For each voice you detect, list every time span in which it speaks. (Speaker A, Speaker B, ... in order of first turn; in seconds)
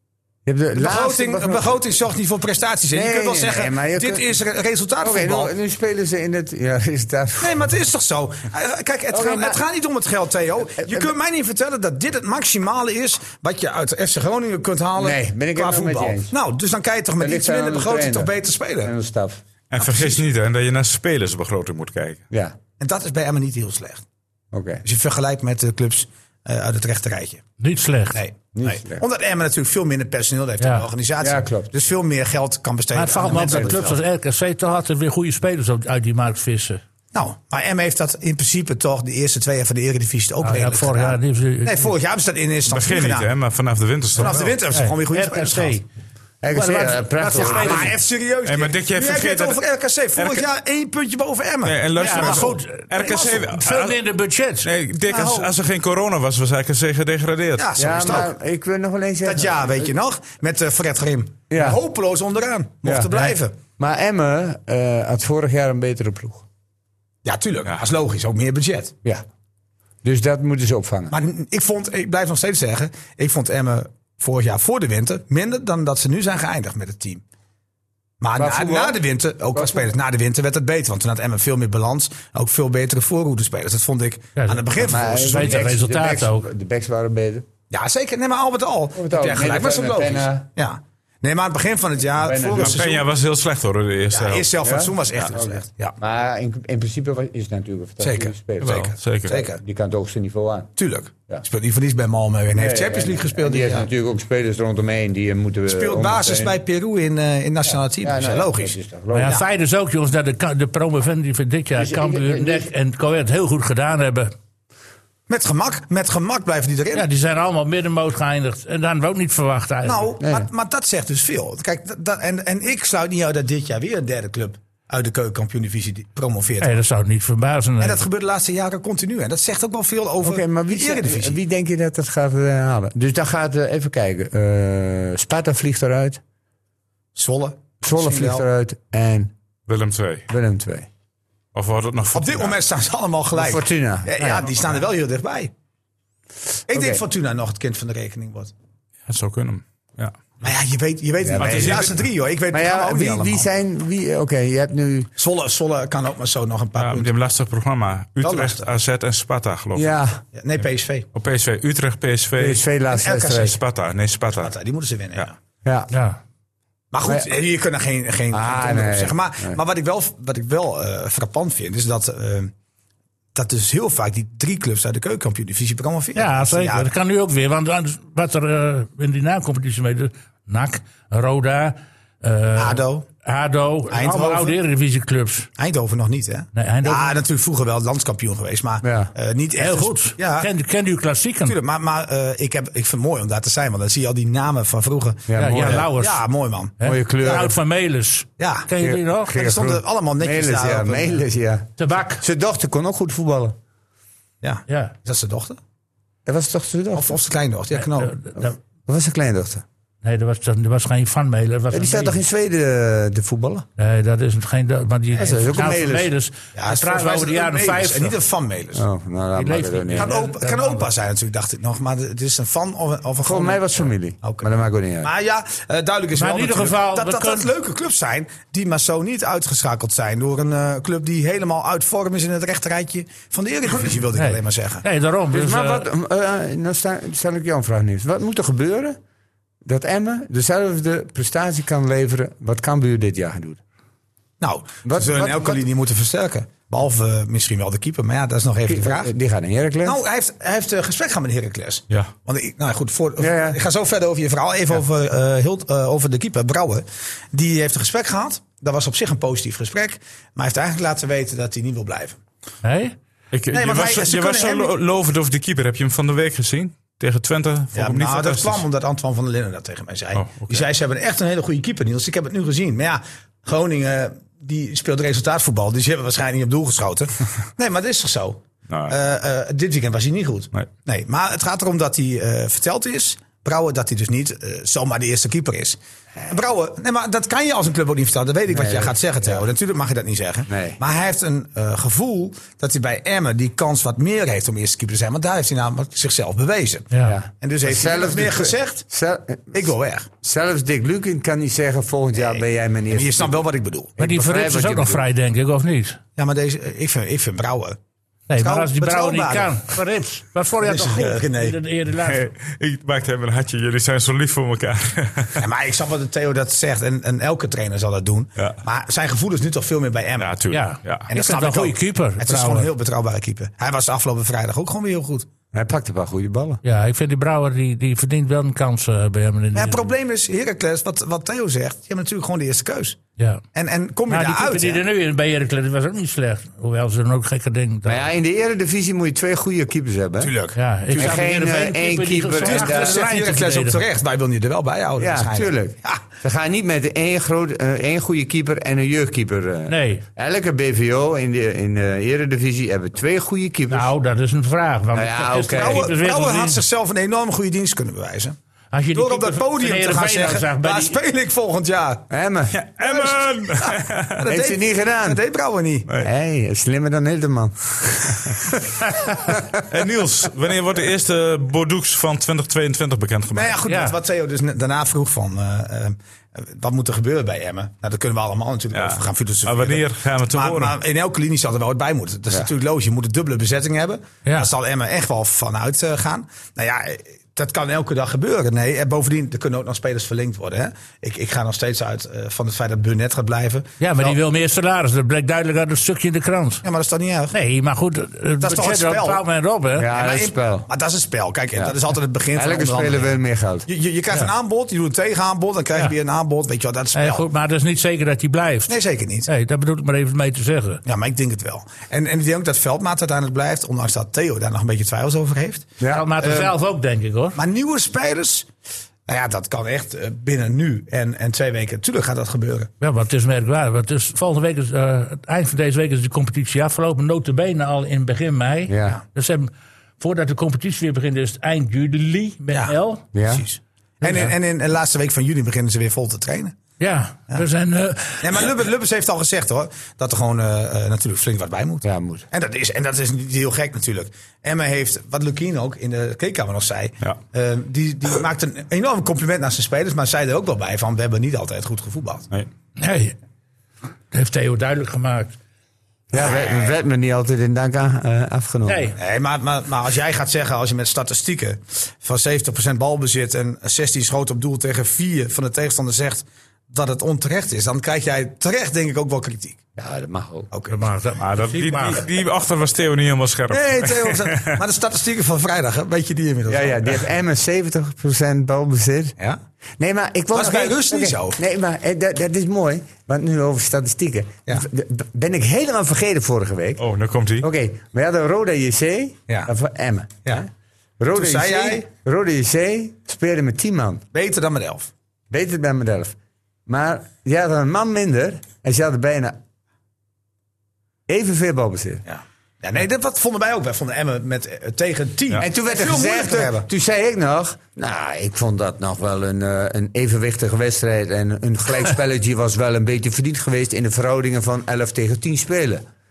Speaker A: 0.5-1.8, 2.9-4.4, 5.0-7.8, 9.1-9.6, 10.8-11.1, 15.0-16.4, 17.2-19.4, 22.3-22.6, 24.5-24.8, 28.6-29.0, 31.2-31.7, 33.3-33.9, 46.4-48.0, 57.8-59.9, 61.5-61.8, 62.8-66.5, 70.0-71.2, 78.4-79.9, 84.8-87.5, 89.0-90.5, 92.2-92.8, 94.6-100.7, 102.5-106.6, 107.7-109.4, 111.8-112.7, 120.2-120.5, 130.2-136.2, 137.8-139.3, 140.3-140.9, 143.3-144.5, 146.7-147.1, 151.2-152.0, 152.5-155.1, 159.8-160.2, 162.4-163.6, 165.6-165.9, 167.0-167.3, 168.3-169.6, 188.8-189.1, 195.3-195.9, 196.8-197.5, 198.8-203.6, 206.3-207.2, 208.4-209.7, 211.7-213.7, 215.1-216.1, 218.7-220.2, 223.2-225.1, 235.3-239.0, 239.7-243.6, 244.8-245.6, 248.7-250.0, 253.2-253.6, 288.5-289.5, 290.5-290.8, 297.1-299.7, 300.2-305.0, 325.5-326.6, 337.9-340.4, 340.9-343.0, 345.0-353.9, 354.9-355.9, 362.1-362.6, 364.3-365.2, 366.0-369.6, 399.8-400.7, 402.3-403.7, 428.7-429.0, 433.1-433.5, 441.8-442.3, 456.1-458.9, 469.8-470.5, 476.5-479.2, 479.8-486.8, 487.4-494.0, 495.3-499.4, 501.1-502.0, 505.4-515.9
Speaker B: 0.8-5.5, 7.4-18.9, 19.8-20.2, 22.8-24.1, 24.8-27.4, 28.1-34.0, 37.1-43.3, 44.2-45.8, 47.4-53.5, 55.1-55.5, 57.6-58.3, 59.2-63.6, 67.2-68.9, 71.1-77.2, 78.2-85.7, 87.7-93.1, 94.1-96.0, 98.0-99.6, 100.8-103.9, 105.7-109.5, 115.3-117.1, 119.8-126.8, 127.8-131.4, 137.2-138.4, 142.1-145.5, 146.7-148.5, 150.4-153.5, 155.2-157.1, 158.2-158.7, 160.3-161.1, 162.9-163.5, 164.4-165.4, 166.9-172.5, 173.3-176.9, 182.6-183.1, 183.9-184.6, 185.6-190.5, 191.4-197.4, 198.4-198.7, 199.3-201.2, 204.4-205.6, 206.9-208.2, 216.6-218.9, 219.9-224.5, 225.0-234.8, 244.4-249.1, 249.8-262.2, 263.5-264.7, 267.7-298.8, 299.5-300.1, 302.2-304.0, 306.2-307.8, 308.4-309.6, 310.6-311.6, 315.4-320.3, 321.1-325.3, 329.6-333.0, 333.5-334.8, 340.2-341.3, 342.4-346.0, 355.5-358.4, 358.9-362.1, 362.8-365.9, 373.3-394.2, 396.6-397.4, 398.4-399.2, 399.9-403.1, 403.7-407.2, 408.7-409.3, 410.9-416.5, 417.4-418.5, 419.1-422.7, 433.3-436.6, 438.2-452.3, 456.2-456.7, 459.0-469.6, 470.5-470.8, 473.5-477.0, 480.3-481.4, 491.1-491.9, 494.1-494.9, 502.1-506.7
Speaker C: 19.7-22.2, 42.7-44.6, 48.5-49.6, 50.2-50.5, 51.6-54.0, 54.6-57.7, 92.5-94.5, 98.6-99.4, 139.7-140.3, 141.6-142.6, 149.1-150.1, 151.3-152.0, 156.8-159.9, 161.1-162.6, 163.3-164.5, 263.3-268.6, 270.1-270.7, 278.7-278.9, 312.0-315.4, 320.2-321.1, 362.5-364.2, 369.7-373.6, 378.7-380.8, 471.2-474.6, 486.8-487.5
Speaker D: 27.6-28.2, 30.6-30.9, 32.9-36.8, 40.4-41.9, 44.2-45.9, 46.5-47.9, 52.0-54.7, 84.4-86.5, 109.1-114.3, 116.9-120.2, 126.6-128.0, 165.9-166.2, 176.2-185.5, 186.5-187.2, 189.6-191.6, 195.3-196.2, 196.8-199.4, 201.8-202.2, 204.7-204.9, 207.8-208.6, 210.0-212.2, 213.8-218.2, 219.3-220.9, 226.2-227.5, 234.2-235.9, 262.6-262.9, 296.9-297.2, 304.0-306.0, 308.3-312.3, 320.5-322.7, 326.6-329.9, 333.2-333.4, 334.1-338.1, 340.6-343.8, 349.7-350.0, 353.7-356.6, 358.7-361.0, 373.7-374.0, 384.2-384.5, 393.8-396.6, 397.3-399.9, 406.9-410.8, 415.9-417.4, 422.8-433.1, 434.0-434.3, 436.8-438.5, 452.8-453.1, 454.1-455.4, 458.7-459.0, 470.7-472.0